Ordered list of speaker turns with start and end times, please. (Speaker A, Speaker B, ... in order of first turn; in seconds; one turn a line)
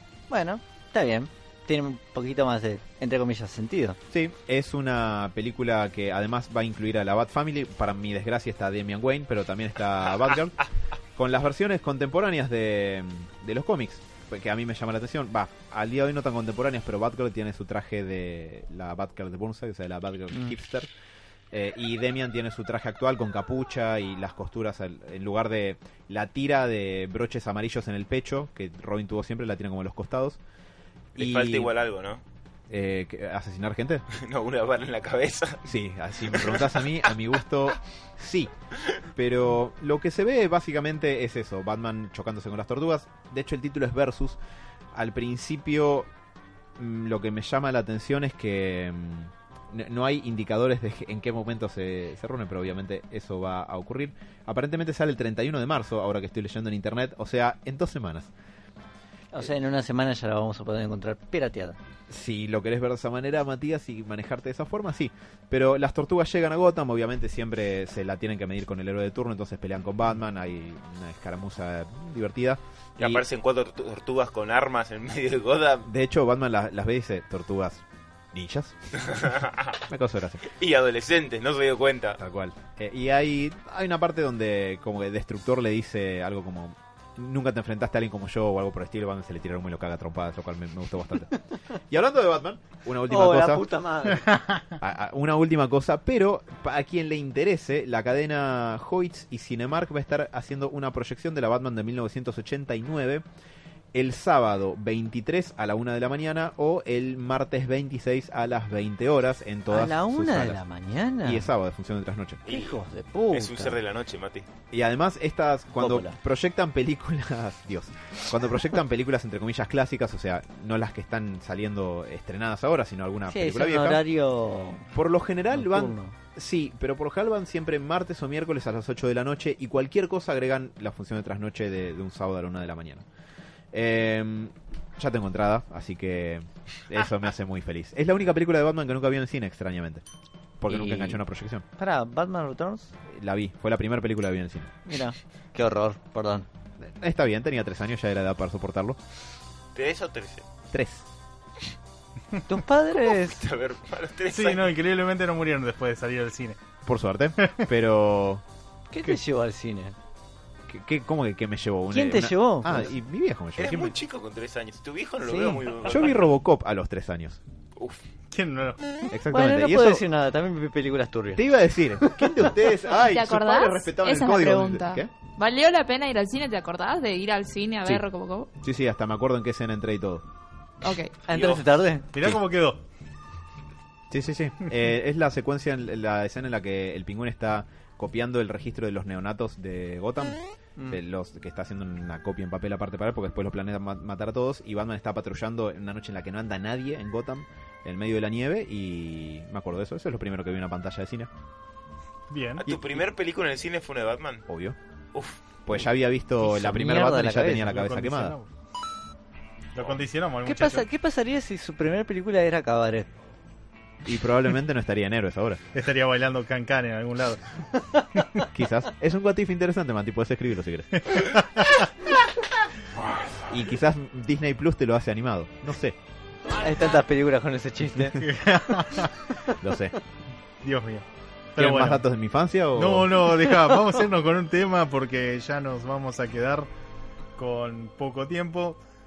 Speaker A: 0.3-4.0
Speaker B: 4.1-10.6
Speaker B: 11.2-20.9
Speaker B: 21.5-30.4
Speaker C: 31.2-32.2
Speaker B: 31.2-31.7
Speaker B: 32.7-34.1
Speaker C: 34.1-35.7
Speaker B: 35.7-38.5
Speaker C: 36.3-36.9
Speaker B: 39.1-44.4
Speaker B: 44.9-46.1
Speaker B: 46.8-58.3
Speaker A: 59.3-61.8
Speaker B: 62.1-73.2
Speaker C: 73.0-75.9
Speaker B: 75.8-78.8
Speaker C: 79.0-79.8
Speaker B: 79.9-80.5
Speaker C: 80.5-82.2
Speaker B: 82.2-91.3
Speaker B: 91.9-93.6
Speaker A: 93.1-94.3
Speaker B: 94.8-103.2
Speaker B: 103.9-110.6
Speaker A: 109.7-111.5
Speaker B: 111.2-112.4
Speaker A: 112.5-113.8
Speaker C: 112.5-112.8
Speaker C: 113.3-114.5
Speaker B: 114.7-124.0
Speaker A: 115.8-116.2
Speaker A: 123.3-124.9
Speaker B: 124.9-133.1
Speaker A: 125.5-126.2
Speaker B: 133.7-140.0
Speaker B: 140.6-141.6
Speaker A: 140.7-141.2
Speaker A: 141.8-142.9
Speaker B: 143.1-144.7
Speaker A: 144.9-146.5
Speaker B: 146.8-149.0
Speaker C: 149.8-150.5
Speaker B: 150.7-151.1
Speaker A: 152.4-153.4
Speaker C: 153.1-154.7
Speaker D: 154.3-156.6
Speaker B: 156.9-158.4
Speaker D: 157.4-157.7
Speaker A: 158.9-160.0
Speaker B: 160.7-163.9
Speaker A: 161.9-162.9
Speaker C: 163.6-166.3
Speaker B: 165.2-167.4
Speaker C: 167.8-168.0
Speaker D: 168.3-168.9
Speaker B: 169.1-170.0
Speaker A: 169.3-171.5
Speaker B: 171.4-175.1
Speaker E: 172.9-178.5
Speaker B: 178.6-180.3
Speaker E: 180.8-181.2
Speaker A: 181.2-182.1
Speaker C: 181.3-181.7
Speaker D: 182.1-182.8
Speaker B: 184.1-201.3
Speaker D: 202.3-202.6
Speaker C: 202.6-204.5
Speaker B: 202.7-203.0
Speaker B: 204.5-204.8
Speaker C: 205.1-205.4
Speaker B: 205.7-208.4
Speaker A: 206.4-207.7
Speaker D: 207.5-208.5
Speaker D: 209.8-210.9
Speaker A: 210.4-213.1
Speaker B: 214.0-215.6
Speaker D: 215.7-217.6
Speaker B: 218.5-221.0
Speaker D: 221.1-221.8
Speaker B: 223.5-226.0
Speaker A: 226.6-228.3
Speaker D: 228.2-229.2
Speaker B: 229.6-229.9
Speaker D: 230.6-232.1
Speaker B: 231.6-233.3
Speaker D: 232.8-236.7
Speaker D: 237.4-238.8